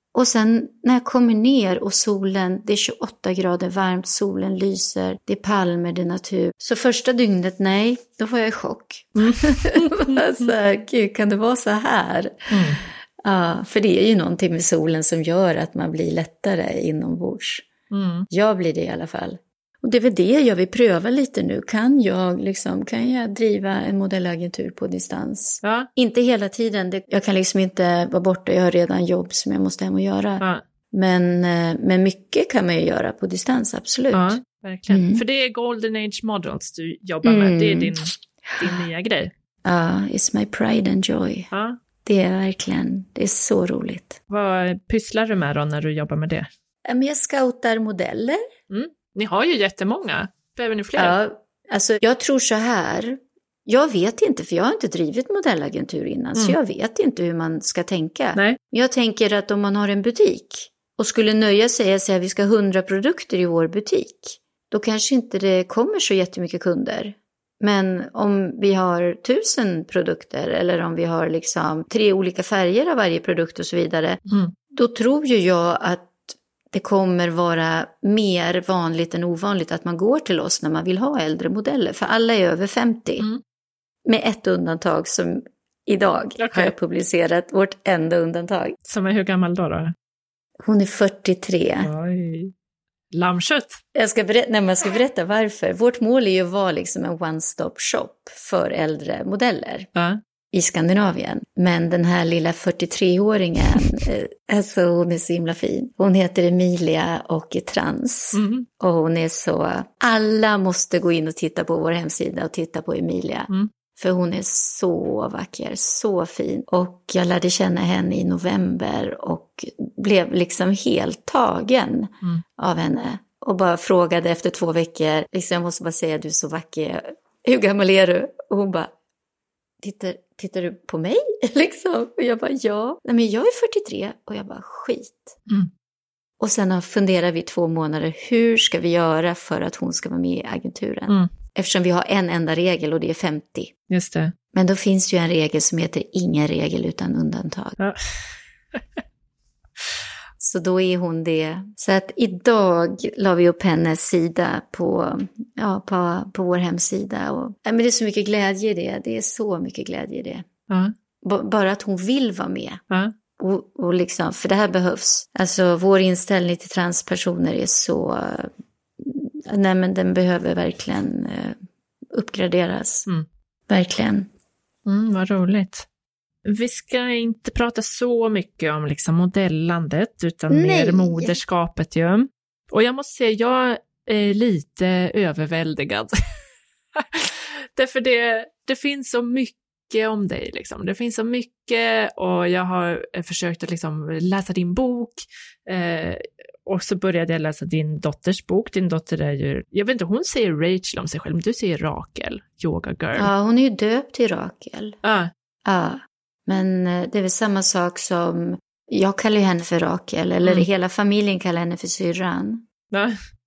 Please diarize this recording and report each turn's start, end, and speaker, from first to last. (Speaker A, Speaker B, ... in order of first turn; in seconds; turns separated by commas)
Speaker A: 0.1-12.6, Speaker B: 9.2-10.2, Speaker B: 12.5-12.8, Speaker A: 13.2-17.7, Speaker B: 17.9-18.3, Speaker A: 18.3-35.2, Speaker B: 25.6-25.9, Speaker B: 34.1-39.3, Speaker A: 37.2-37.9, Speaker A: 39.6-41.5, Speaker B: 41.5-41.8, Speaker A: 42.0-44.2, Speaker B: 44.3-46.5, Speaker A: 46.9-48.4, Speaker B: 48.7-51.1, Speaker A: 51.0-74.2, Speaker B: 74.3-74.5, Speaker A: 74.7-83.3, Speaker A: 84.0-88.8, Speaker B: 86.4-86.7, Speaker B: 88.8-89.9, Speaker A: 90.6-91.9, Speaker B: 91.8-92.5, Speaker B: 93.1-93.8, Speaker A: 93.9-99.9, Speaker B: 99.9-100.2, Speaker A: 100.5-128.9, Speaker B: 108.3-108.7, Speaker A: 129.8-135.4, Speaker A: 136.4-143.7, Speaker B: 143.9-144.3, Speaker A: 144.5-147.8, Speaker B: 147.8-149.0, Speaker A: 150.4-160.4, Speaker B: 160.7-160.9, Speaker A: 161.2-162.8, Speaker A: 163.4-171.6, Speaker A: 172.1-173.1, Speaker A: 173.7-174.3, Speaker B: 174.8-175.8, Speaker B: 176.4-186.4, Speaker A: 180.5-181.4, Speaker B: 186.9-203.3, Speaker A: 203.1-205.0, Speaker B: 205.0-205.3, Speaker A: 205.6-212.7, Speaker B: 212.9-213.2